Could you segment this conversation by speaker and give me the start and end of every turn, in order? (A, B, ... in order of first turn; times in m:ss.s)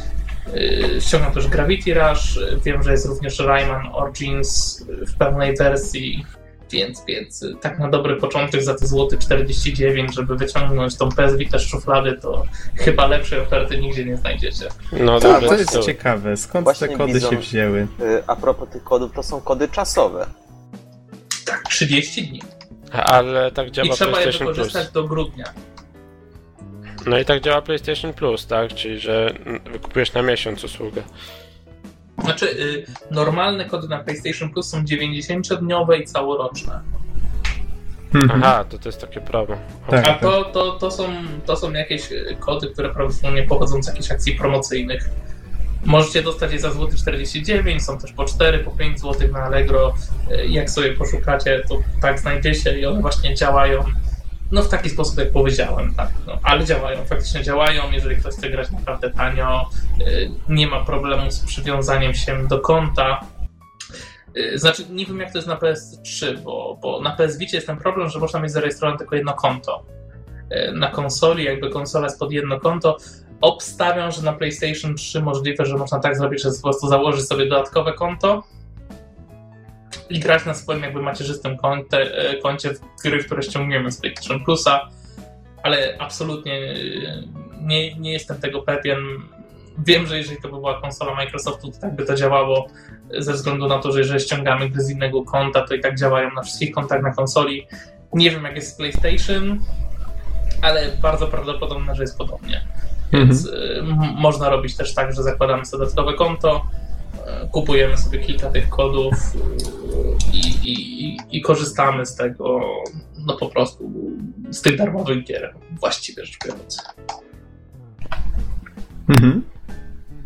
0:00.5-0:14.8 A
0:14.9-0:15.9 B
0:15.2-0:17.9 C
0:15.2-0:15.9 D
0:16.6-0:17.5 D
0:18.0-0:20.3 D
0:21.4-0:22.5 A
0:22.9-0:24.9 B
0:23.8-0:25.5 A
0:27.0-0:31.0 B
0:32.2-0:36.8 A
0:38.1-0:38.5 C
0:38.3-0:40.2 B
0:39.9-0:40.3 C
0:40.0-0:45.1 A
0:45.8-0:54.0 A
0:54.5-1:03.2 A
1:04.3-1:09.8 A
1:10.5-1:18.4 A
1:20.1-1:24.8 A
1:25.6-1:39.6 A
1:40.6-1:46.6 A
1:43.1-1:43.5 C
1:47.2-1:56.8 A
1:59.1-1:59.4 C